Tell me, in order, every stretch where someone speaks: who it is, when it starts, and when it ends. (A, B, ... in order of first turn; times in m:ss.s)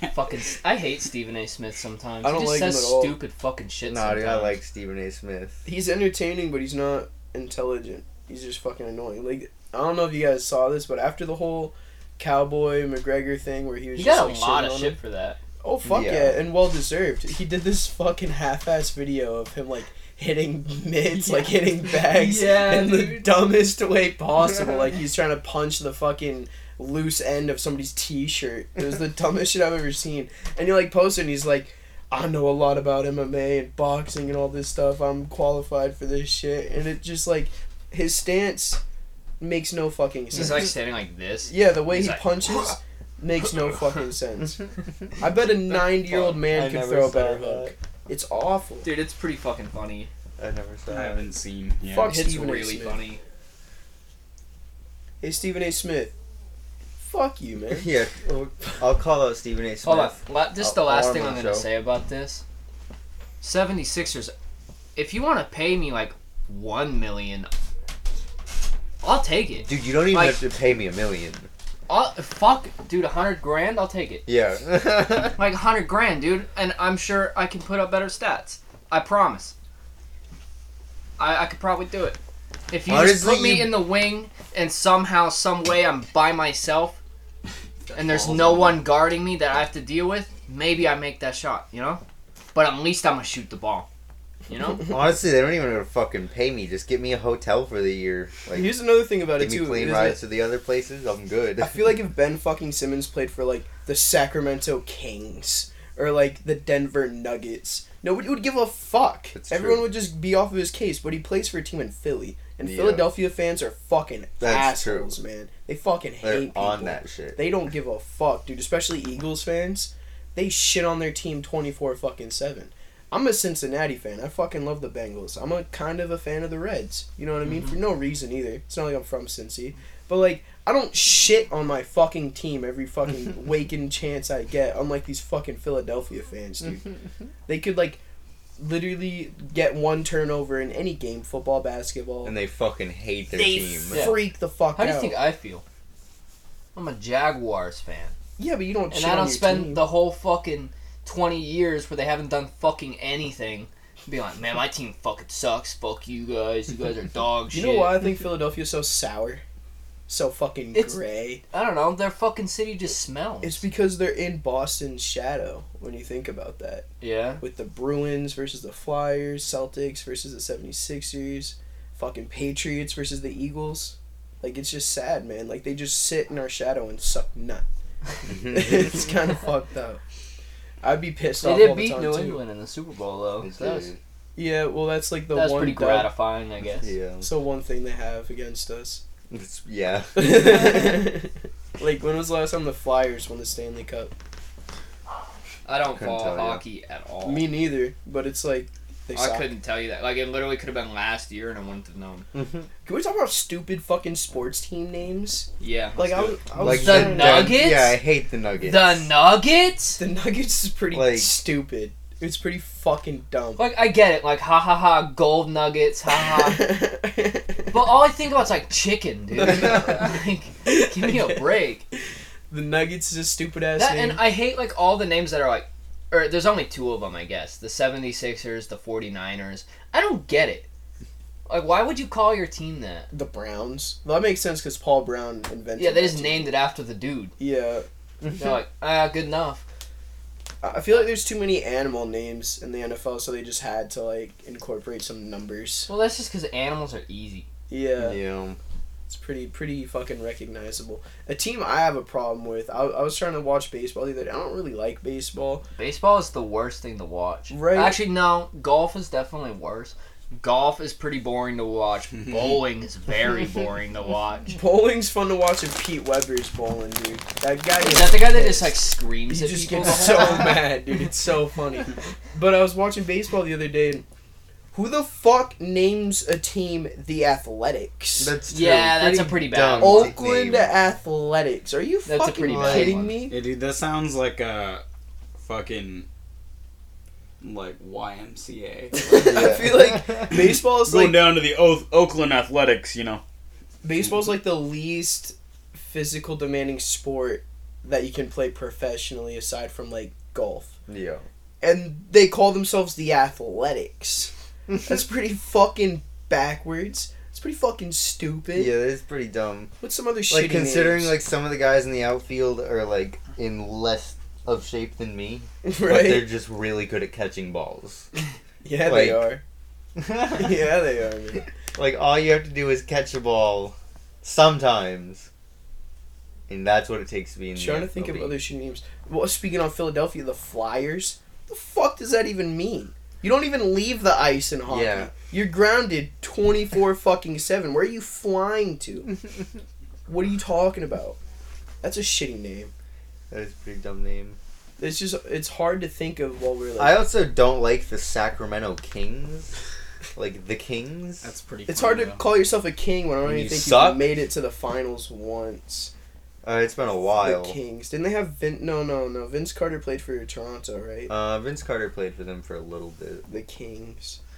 0:00.1-0:04.6 A
0:02.2-0:03.2 B
0:03.8-0:05.6 C
0:05.6-0:15.0 B
0:13.9-0:15.4 A
0:15.6-0:38.8 B
0:15.8-0:16.4 C
0:21.2-0:23.3 A
0:39.4-0:40.7 B
0:40.3-0:42.7 A
0:41.5-0:44.6 B
0:45.2-0:48.9 B
0:46.0-0:47.7 C
0:48.8-0:50.1 A
0:50.4-0:51.3 C
0:50.9-0:52.2 D
0:51.9-0:53.0 B
0:52.0-0:53.2 A
0:55.2-0:56.1 B
0:57.0-0:57.9 B
0:57.7-1:01.7 C
0:59.8-1:02.4 A
1:03.4-1:04.3 A
1:05.0-1:07.5 A
1:09.0-1:10.4 A
1:09.6-1:11.5 C
1:11.9-1:14.2 A
1:14.2-1:15.4 C
1:15.4-1:19.5 A
1:21.2-1:22.2 A
1:22.7-1:27.0 A
1:22.9-1:23.8 C
1:27.9-1:28.8 D
1:27.9-1:32.0 A
1:32.5-1:33.9 A
1:34.5-1:34.9 A
1:34.8-1:38.8 C
1:38.5-1:40.2 B
1:39.3-1:41.9 C
1:41.6-2:16.9 B
1:49.3-1:49.9 C
1:52.6-1:53.1 C
1:54.4-1:55.1 C
1:56.2-1:57.5 C
2:17.5-2:18.0 B
2:18.6-2:22.3 B
2:22.2-2:24.1 C
2:23.3-2:25.6 A
2:23.9-2:25.2 B
2:26.7-2:28.1 A
2:28.4-2:29.8 B
2:28.9-2:38.0 A
2:37.5-2:39.4 B
2:40.1-2:41.4 B
2:40.7-2:41.0 A
2:41.5-2:43.6 A
2:43.4-2:46.9 B
2:47.0-2:47.4 A
2:47.4-2:57.6 B
2:58.2-2:59.1 C
2:58.3-3:00.0 B
3:00.8-3:02.4 B
3:01.4-3:03.9 A
3:03.4-3:04.0 C
3:04.4-3:06.1 B
3:05.3-3:06.9 A
3:06.8-3:07.3 C
3:07.2-3:09.0 B
3:09.3-3:11.0 C
3:10.2-3:14.1 B
3:15.6-3:17.5 A
3:15.9-3:16.6 C
3:17.2-3:19.5 B
3:19.1-3:22.2 A
3:22.3-3:22.7 C
3:22.8-3:27.6 B
3:25.6-3:28.0 A
3:26.5-3:29.1 C
3:28.6-3:30.0 A
3:30.0-3:33.6 B
3:30.9-3:31.3 C
3:33.6-3:36.7 A
3:36.2-3:37.7 B
3:37.7-3:41.8 A
3:39.4-3:41.6 B
3:42.5-3:44.2 B
3:43.8-3:50.7 A
3:51.5-3:53.1 A
3:53.1-3:56.5 B
3:55.8-3:57.3 A
3:57.4-3:57.8 B
3:58.4-3:59.6 A
4:00.6-4:05.9 B
4:05.9-4:07.5 A
4:07.7-4:08.2 B
4:08.0-4:08.6 C
4:09.1-4:15.6 B
4:15.8-4:24.6 A
4:17.5-4:18.0 B
4:22.3-4:22.6 D
4:24.5-4:28.8 B
4:27.8-4:30.6 A
4:29.3-4:34.0 B
4:34.7-4:38.4 B
4:38.2-4:40.7 C
4:38.5-4:40.2 A
4:39.8-4:43.4 B
4:42.0-4:43.2 A
4:42.4-4:43.1 C
4:43.3-4:44.8 D
4:45.4-4:46.0 D
4:47.4-4:49.8 D
4:49.0-4:51.2 B
4:49.1-4:50.2 C
4:50.3-4:53.2 D
4:53.8-5:00.7 B
5:00.9-5:01.2 C
5:01.6-5:04.3 B
5:04.8-5:08.7 B
5:08.5-5:09.7 C
5:09.8-5:11.1 B
5:10.3-5:18.1 C
5:15.6-5:16.2 B
5:18.6-5:19.4 B
5:18.8-5:19.3 C
5:20.0-5:20.6 C
5:20.3-5:21.4 B
5:21.7-5:25.3 C
5:26.5-5:28.4 C
5:27.6-5:39.1 B
5:34.6-5:35.1 C
5:40.1-5:41.2 B
5:41.8-5:42.7 B
5:43.3-5:44.4 C
5:44.8-5:47.0 B
5:46.8-5:49.5 C
5:50.2-5:51.2 C
5:51.2-5:52.2 D
5:51.7-5:55.9 B
5:53.2-5:54.2 C
5:56.4-5:57.6 C
5:57.2-6:01.1 B
6:01.1-6:03.2 C
6:03.3-6:04.2 B